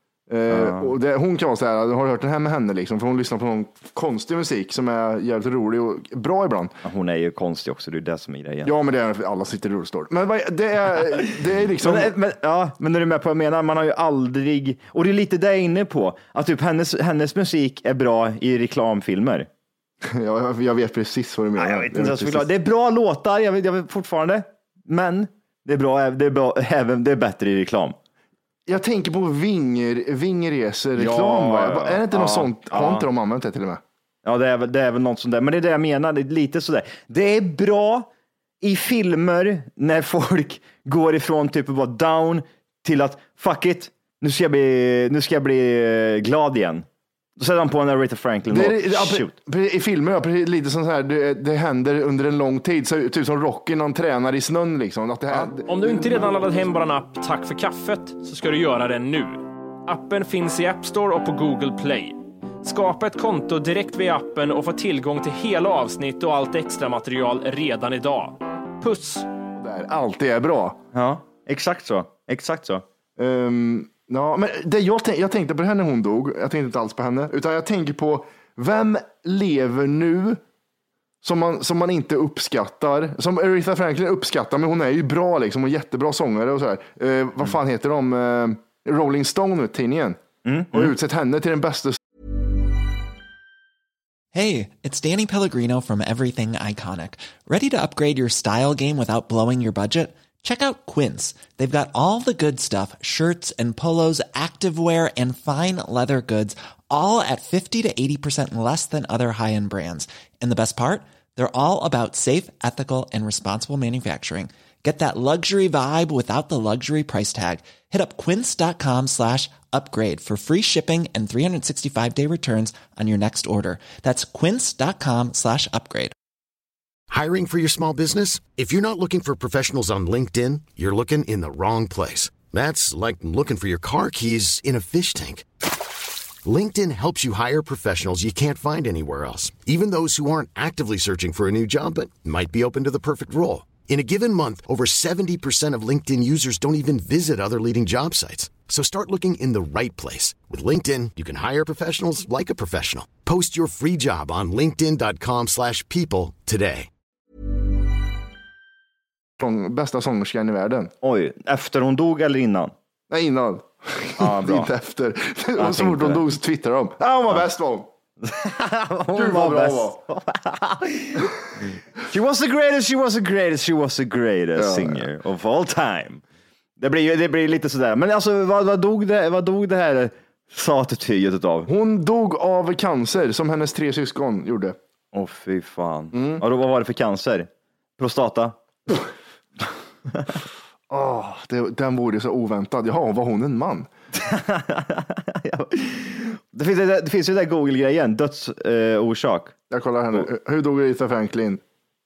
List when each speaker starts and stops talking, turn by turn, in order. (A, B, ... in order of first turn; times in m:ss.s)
0:00.3-0:06.7 A
0:00.5-0:00.9 B
0:06.8-0:08.7 B
0:08.6-0:12.1 A
0:11.8-0:19.5 B
0:20.0-0:22.5 A
0:21.6-0:28.0 B
0:28.7-0:33.8 A
0:31.0-0:33.1 B
0:34.2-0:38.1 B
0:38.6-0:46.8 B
0:47.4-0:49.3 B
0:48.5-0:56.3 A
0:55.3-1:09.3 C
1:09.5-1:10.8 A
1:10.9-1:12.8 B
1:13.2-1:20.4 A
1:21.2-1:30.2 A
1:30.4-1:30.9 B
1:30.7-1:32.0 A
1:34.3-2:06.1 D
2:07.1-2:15.5 E
2:16.4-2:36.9 E
2:39.4-2:40.9 A
2:41.0-2:42.7 B
2:43.1-2:47.9 A
2:44.2-2:44.7 B
2:45.6-2:46.2 B
2:48.2-2:51.3 B
2:49.1-2:50.0 A
2:52.0-2:56.2 B
2:54.6-2:55.0 A
2:56.8-3:01.7 B
3:01.7-3:04.8 A
3:05.1-3:08.5 B
3:06.1-3:06.4 A
3:10.9-3:13.9 A
3:14.1-3:19.5 B
3:19.7-3:21.6 A